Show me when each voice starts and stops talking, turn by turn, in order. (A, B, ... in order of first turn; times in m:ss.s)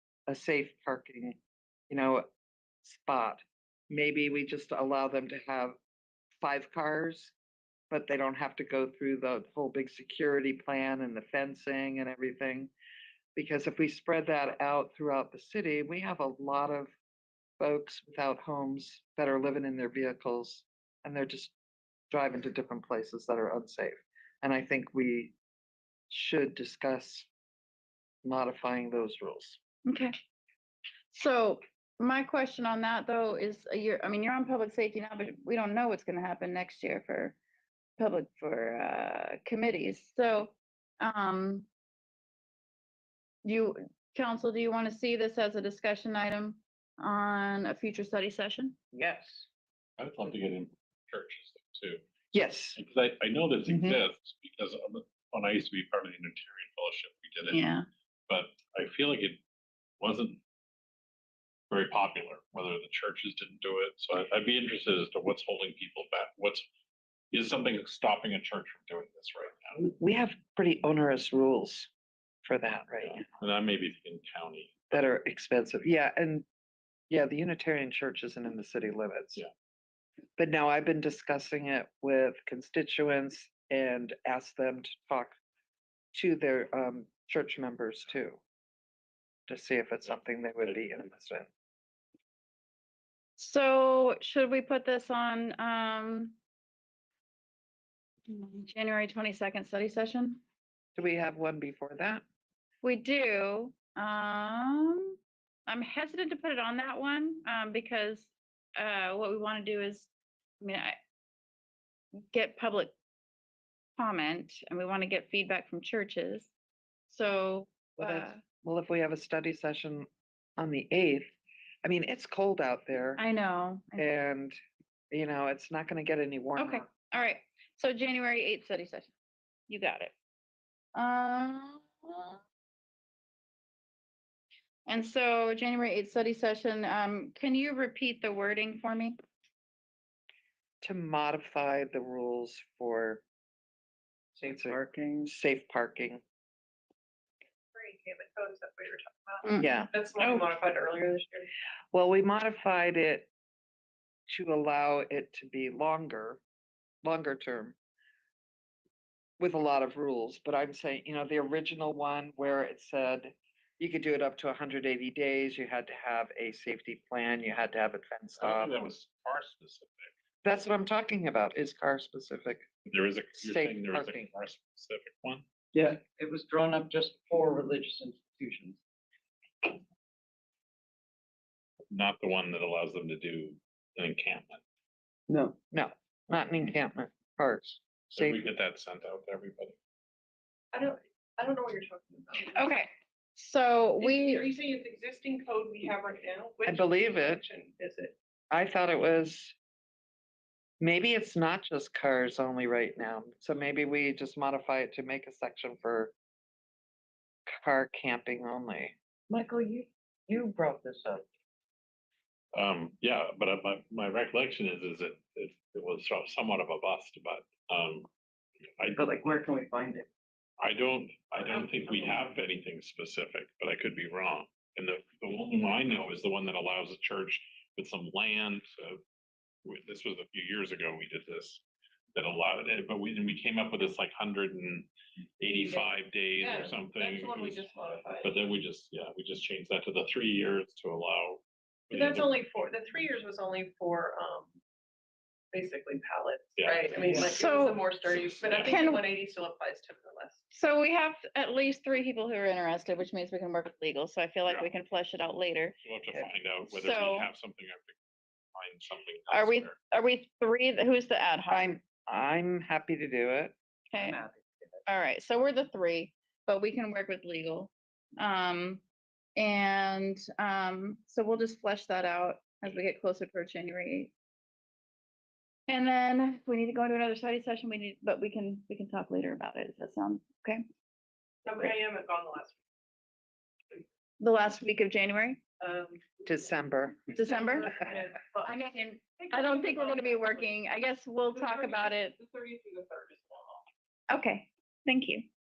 0:00.3-0:01.4 A
0:01.9-0:02.3 A
0:02.8-0:05.8 A
0:06.4-0:07.3 A
0:07.9-0:12.7 A
0:13.4-0:16.9 A
0:17.6-0:21.5 A
0:22.1-0:25.3 A
0:26.1-0:27.3 A
0:28.2-0:29.6 A
0:29.9-0:30.1 B
0:31.1-0:37.4 B
0:38.0-0:41.7 B
0:43.4-0:48.8 B
0:48.9-0:49.4 C
0:50.0-0:52.0 D
0:52.3-0:52.8 A
0:52.8-0:57.6 D
0:53.7-0:54.0 A
0:57.5-0:57.8 B
0:58.3-0:59.4 D
1:00.0-1:00.4 D
1:01.7-1:06.6 D
1:07.3-1:09.8 D
1:09.8-1:11.9 A
1:12.4-1:13.2 A
1:13.0-1:14.8 D
1:14.9-1:16.4 A
1:17.1-1:19.4 A
1:20.4-1:25.3 A
1:26.1-1:28.4 A
1:29.5-1:31.5 A
1:33.4-1:36.4 B
1:38.3-1:40.4 B
1:41.0-1:42.2 A
1:42.8-1:50.1 B
1:50.6-1:51.0 B
1:52.3-1:52.9 B
1:54.0-1:56.5 B
1:57.1-1:58.4 B
1:58.0-2:01.3 A
2:01.8-2:03.2 A
2:03.2-2:04.0 B
2:04.0-2:04.6 A
2:05.1-2:06.9 A
2:06.6-2:09.1 B
2:09.7-2:10.1 B
2:11.0-2:12.4 B
2:14.9-2:19.2 B
2:20.8-2:23.2 A
2:24.4-2:25.3 C
2:24.4-2:26.2 A
2:27.7-2:31.5 E
2:29.5-2:29.8 B
2:29.6-2:30.4 A
2:31.9-2:33.3 A
2:34.3-2:36.4 A
2:37.0-2:37.8 A
2:39.4-2:48.9 A
2:48.4-2:50.1 D
2:50.4-2:52.6 A
2:52.8-2:55.4 D
2:53.4-2:54.3 A
2:55.7-2:58.8 C
3:01.9-3:04.6 D
3:05.3-3:05.6 C
3:05.7-3:08.4 A
3:08.2-3:09.8 D
3:10.7-3:12.6 E
3:12.5-3:14.5 B
3:14.0-3:18.2 E
3:16.7-3:17.4 A
3:18.5-3:19.5 A
3:20.8-3:26.1 A
3:27.5-3:29.0 A
3:29.3-3:31.2 C
3:32.5-3:38.1 D
3:38.9-3:40.1 C
3:40.6-3:49.0 D
3:49.6-3:51.6 D
3:52.1-3:54.9 D
3:55.4-3:57.6 D
3:55.4-3:55.9 E
3:56.4-3:58.4 E
3:58.2-4:02.3 D
4:01.9-4:04.6 E
4:05.5-4:10.4 E
4:06.6-4:07.3 D
4:07.0-4:07.3 C
4:07.3-4:07.8 B
4:08.1-4:08.9 D
4:08.7-4:09.0 B
4:10.5-4:15.8 B
4:15.8-4:18.0 D
4:16.7-4:17.3 B
4:18.6-4:19.8 D
4:19.3-4:21.8 B
4:21.5-4:23.5 A
4:23.9-4:24.2 B
4:24.0-4:24.7 C
4:24.9-4:28.8 B
4:29.4-4:34.1 B
4:35.7-4:40.6 B
4:41.4-4:42.6 E
4:44.2-4:45.4 B
4:45.6-4:46.1 E
4:46.2-4:47.1 A
4:47.1-4:47.7 B
4:47.2-4:48.6 E
4:48.4-4:52.2 B
4:49.2-4:50.6 E
4:51.4-4:53.6 E
4:54.1-4:55.3 B